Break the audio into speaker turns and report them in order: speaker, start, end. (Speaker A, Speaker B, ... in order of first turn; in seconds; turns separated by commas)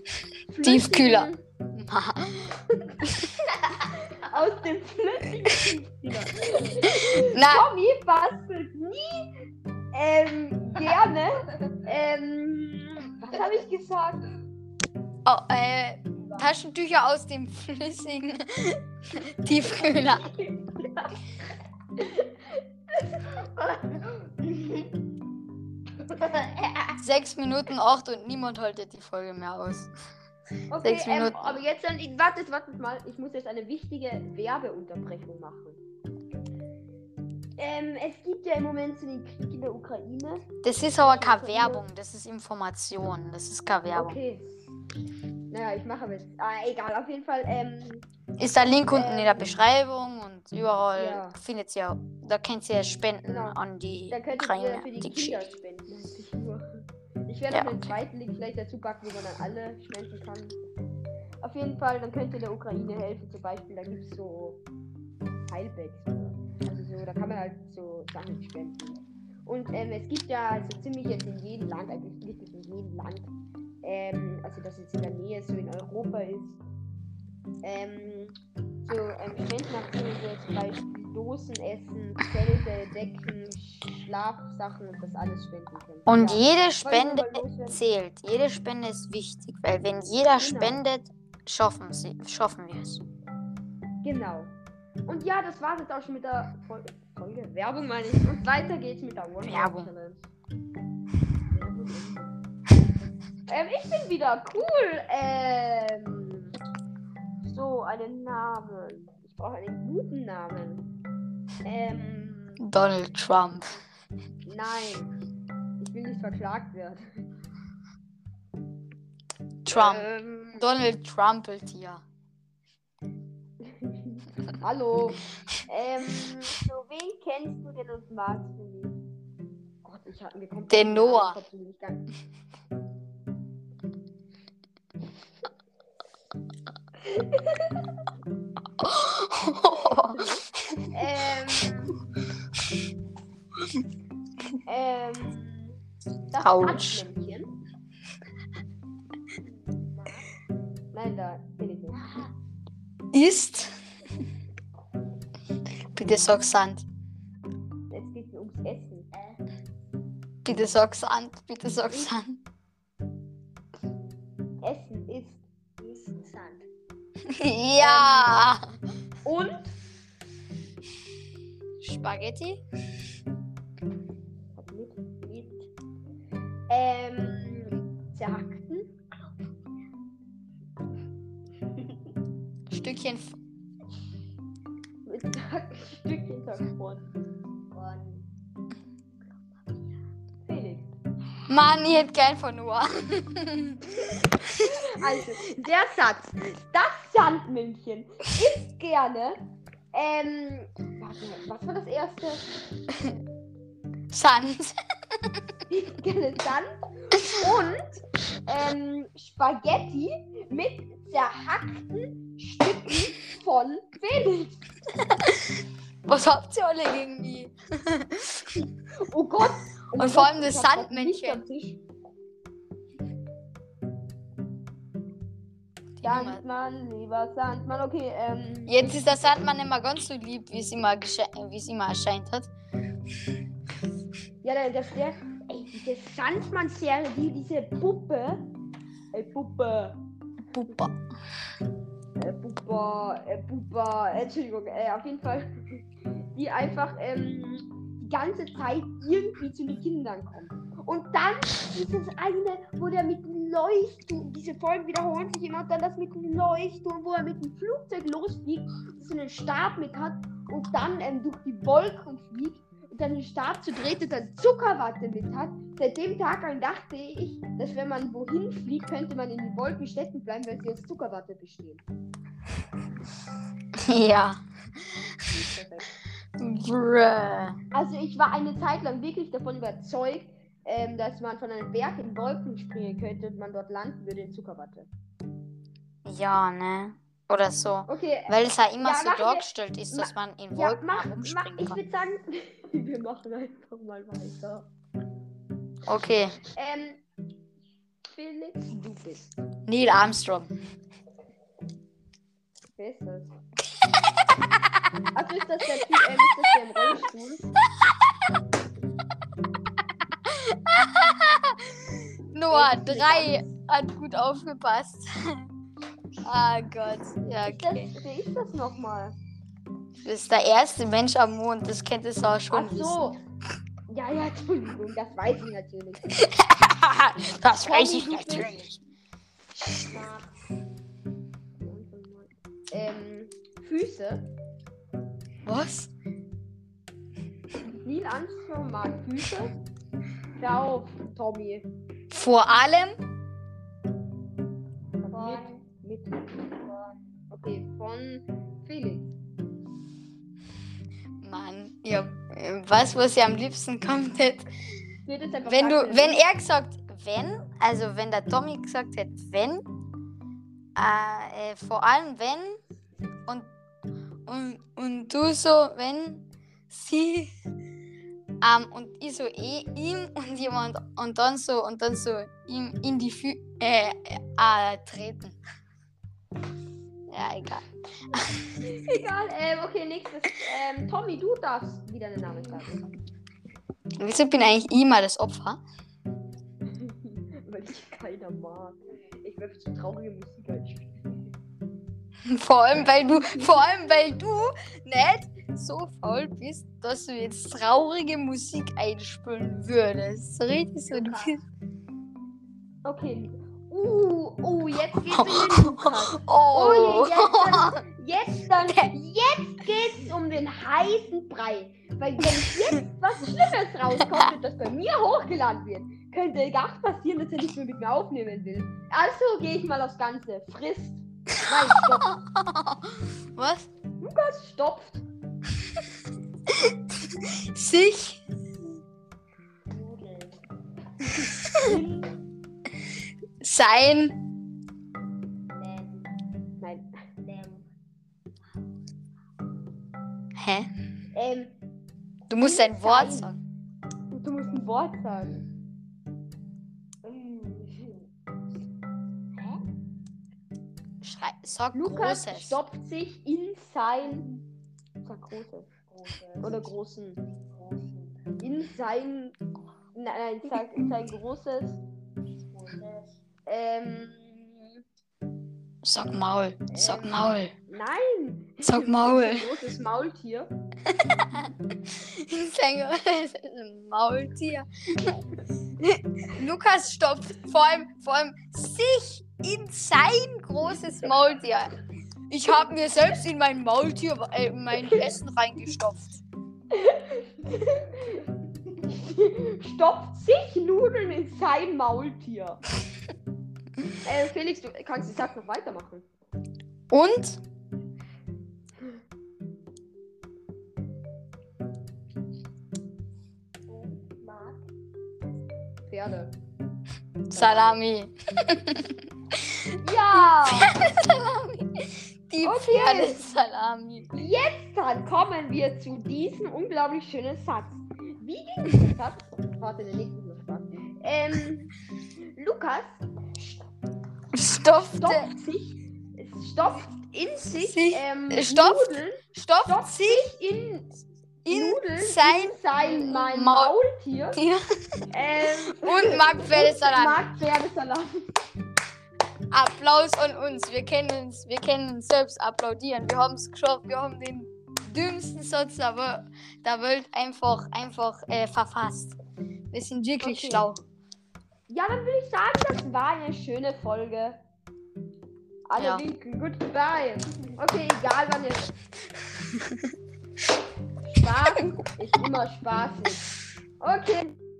Speaker A: 0.5-1.4, Speaker B: 0.6-3.1, Speaker A: 3.8-9.3, Speaker B: 7.0-7.7, Speaker A: 9.9-14.2, Speaker B: 15.2-20.3, Speaker C: 20.4-21.0, Speaker C: 23.0-24.9, Speaker C: 26.0-27.0, Speaker B: 27.0-29.9, Speaker A: 30.7-35.8, Speaker B: 30.8-31.6, Speaker A: 37.6-41.8, Speaker B: 40.6-44.2, Speaker A: 43.9-44.4, Speaker A: 45.5-48.0, Speaker B: 48.4-55.5, Speaker A: 48.9-49.5, Speaker A: 51.0-51.4, Speaker A: 53.2-53.6, Speaker A: 54.1-60.6, Speaker B: 57.5-57.8, Speaker A: 61.4-64.6, Speaker A: 65.5-73.3, Speaker A: 73.8-76.6, Speaker A: 77.6-87.8, Speaker B: 86.1-93.0, Speaker A: 90.4-90.8, Speaker A: 94.0-94.5, Speaker A: 95.1-100.3, Speaker B: 99.5-99.9, Speaker A: 101.5-102.3, Speaker A: 103.5-106.5, Speaker A: 107.4-110.9, Speaker A: 111.6-112.6, Speaker B: 112.6-113.8, Speaker A: 114.4-115.1, Speaker A: 115.8-117.0, Speaker B: 119.6-122.0, Speaker A: 119.7-120.7, Speaker A: 123.6-129.0, Speaker A: 129.8-132.1, Speaker B: 130.7-131.4, Speaker B: 138.8-140.9, Speaker A: 140.1-140.4, Speaker A: 140.9-141.9, Speaker A: 144.7-145.8, Speaker A: 146.3-147.5, Speaker B: 146.4-147.0, Speaker C: 149.4-150.3, Speaker A: 150.9-152.2, Speaker C: 151.9-152.3, Speaker B: 153.1-153.8, Speaker B: 155.9-156.8, Speaker A: 157.9-159.1, Speaker C: 159.1-159.4, Speaker B: 160.4-162.4, Speaker A: 164.6-165.4, Speaker C: 165.8-166.7, Speaker B: 167.3-168.6, Speaker A: 167.8-168.5, Speaker A: 169.2-169.7, Speaker B: 171.8-172.6, Speaker A: 174.5-175.5, Speaker A: 176.7-178.9, Speaker B: 182.7-183.3, Speaker A: 185.1-187.1, Speaker C: 187.7-188.3, Speaker A: 190.4-190.9, Speaker B: 191.5-194.3, Speaker A: 194.1-199.4, Speaker A: 199.9-202.5, Speaker B: 204.1-204.8, Speaker A: 205.7-214.6, Speaker B: 216.1-218.6, Speaker A: 219.1-221.8, Speaker B: 219.9-221.4, Speaker B: 226.0-226.4, Speaker A: 226.0-229.2, Speaker B: 228.7-232.5, Speaker A: 234.4-238.5, Speaker A: 239.1-240.0, Speaker B: 240.5-241.0, Speaker A: 242.2-245.6, Speaker A: 246.3-271.8, Speaker B: 273.9-274.4, Speaker A: 275.3-275.8, Speaker B: 276.4-277.6, Speaker A: 277.7-284.9, Speaker B: 286.0-291.8, Speaker A: 287.9-294.7, Speaker B: 295.9-296.4, Speaker A: 296.5-297.0, Speaker A: 298.1-299.3, Speaker B: 299.7-300.5, Speaker A: 302.8-303.3, Speaker A: 305.1-307.5, Speaker B: 310.2-315.4, Speaker A: 312.5-313.4, Speaker B: 316.2-317.9, Speaker A: 317.4-319.1, Speaker B: 320.0-323.0, Speaker A: 322.5-323.2, Speaker A: 323.9-326.0, Speaker B: 326.2-328.8, Speaker A: 327.6-328.6, Speaker C: 329.7-330.3, Speaker A: 331.6-334.3, Speaker B: 335.4-335.9, Speaker A: 337.8-339.5, Speaker A: 340.4-341.7, Speaker B: 342.1-342.9, Speaker A: 345.0-346.5, Speaker C: 345.1-345.6, Speaker A: 347.3-349.1, Speaker B: 351.2-354.5, Speaker A: 355.1-356.2, Speaker B: 355.4-359.6, Speaker B: 360.8-362.6, Speaker B: 364.2-367.3, Speaker B: 368.4-375.4, Speaker B: 377.1-378.6, Speaker A: 378.8-382.8, Speaker B: 384.0-385.6, Speaker A: 386.7-391.2, Speaker B: 392.3-401.4, Speaker A: 393.1-393.5, Speaker C: 400.9-401.4, Speaker A: 402.8-422.2, Speaker B: 405.2-407.8, Speaker B: 422.1-423.7, Speaker A: 424.0-425.0, Speaker B: 427.5-428.2, Speaker C: 429.7-430.4, Speaker A: 431.2-432.1, Speaker B: 433.4-434.2, Speaker C: 435.5-436.1, Speaker A: 436.6-436.9, Speaker C: 437.2-437.6, Speaker B: 440.4-440.7, Speaker A: 441.1-441.5, Speaker B: 442.3-443.4, Speaker A: 442.4-443.3, Speaker A: 444.1-445.4, Speaker C: 447.0-448.1, Speaker C: 449.3-449.6, Speaker B: 451.0-452.6, Speaker A: 451.7-454.3, Speaker A: 455.0-455.7, Speaker C: 455.9-456.7, Speaker A: 456.4-457.2, Speaker C: 457.3-458.2, Speaker A: 458.4-459.4, Speaker A: 459.9-461.8, Speaker C: 462.5-463.2, Speaker A: 463.4-464.7, Speaker B: 465.8-467.5, Speaker A: 466.7-470.5, Speaker B: 468.6-469.5, Speaker B: 471.1-475.2, Speaker B: 475.8-481.7, Speaker B: 482.3-486.2, Speaker A: 486.7-488.2, Speaker A: 488.8-492.6, Speaker A: 494.0-496.1, Speaker B: 496.9-497.4, Speaker C: 503.7-504.6, Speaker A: 505.9-506.3, Speaker B: 507.3-509.4, Speaker A: 507.3-507.8, Speaker A: 509.8-510.7, Speaker B: 510.2-514.1, Speaker A: 512.4-513.2, Speaker A: 514.1-521.7, Speaker A: 522.3-523.0, Speaker B: 524.3-525.3, Speaker A: 525.0-530.9, Speaker B: 527.5-530.3, Speaker A: 531.4-534.4, Speaker B: 531.5-533.8, Speaker B: 534.3-534.6, Speaker A: 535.1-538.1, Speaker B: 535.6-537.2, Speaker B: 539.5-549.2, Speaker B: 549.7-550.8, Speaker A: 550.2-550.7, Speaker A: 551.7-554.4, Speaker A: 555.7-558.7, Speaker B: 555.8-556.0, Speaker A: 561.0-563.2, Speaker A: 563.8-564.4